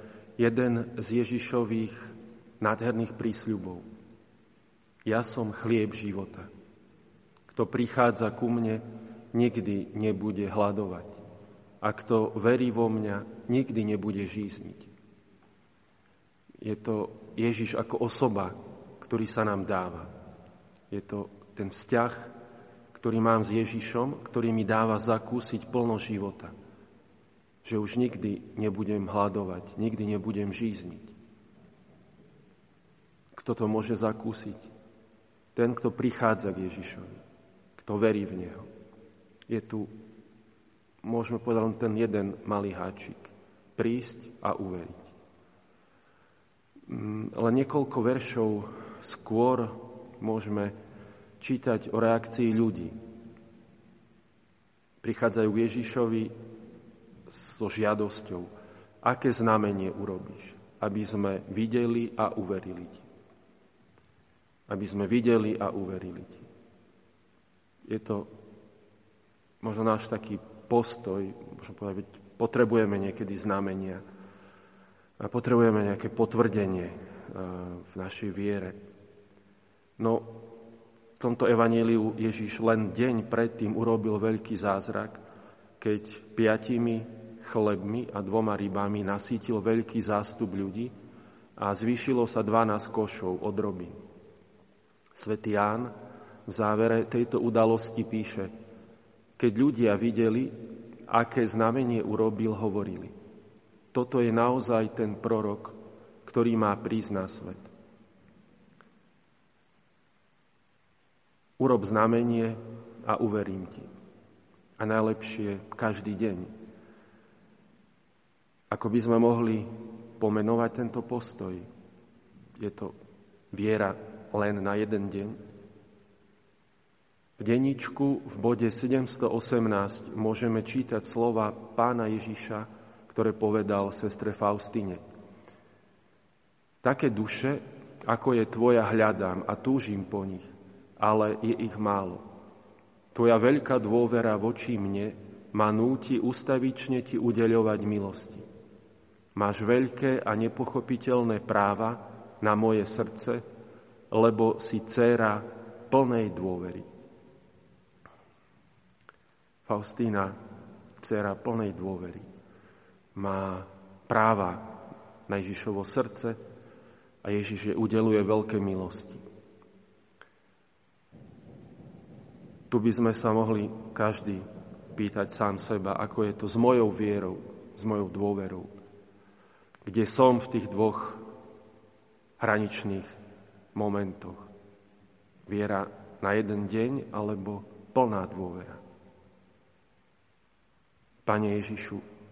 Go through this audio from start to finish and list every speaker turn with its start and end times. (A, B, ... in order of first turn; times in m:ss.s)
0:00.4-0:03.8 A
0:05.1-0:06.5 A
0:07.5-0:11.2 A
0:11.8-0:14.9 A
0:16.6-0:20.1 A
0:20.9-0:22.4 A
0:22.9-0:26.5 A
0:27.6-0:31.1 A
0:33.3-0:34.7 A
0:35.6-0:37.2 A
0:37.8-0:38.7 A
0:39.5-0:39.9 A
0:41.0-0:45.1 A
0:46.9-0:50.8 A
0:51.4-0:53.0 A
0:55.0-0:56.3 A
0:57.3-0:58.5 A
0:59.0-1:03.1 A
1:04.7-1:06.5 A
1:07.9-1:08.3 A
1:09.6-1:14.0 A
1:15.2-1:18.8 A
1:20.0-1:20.4 A
1:21.2-1:25.2 A
1:25.8-1:30.9 A
1:31.6-1:34.0 A
1:35.2-1:35.9 A
1:36.5-1:38.5 A
1:39.4-1:40.5 A
1:41.1-1:43.1 A
1:43.9-1:47.7 A
1:51.6-1:53.9 A
1:54.8-1:56.5 A
1:58.7-2:01.7 A
2:02.6-2:02.9 A
2:03.5-2:05.4 A
2:07.4-2:15.0 A
2:16.8-2:22.2 A
2:23.1-2:28.5 A
2:29.4-2:33.4 A
2:34.1-2:36.9 A
2:39.6-2:40.4 A
2:41.0-2:42.3 A
2:43.2-2:46.4 A
2:47.2-2:49.2 A
2:52.7-2:58.7 A
2:59.8-3:01.2 A
3:02.4-3:03.2 A
3:03.7-3:04.5 A
3:05.5-3:08.8 A
3:11.2-3:12.0 A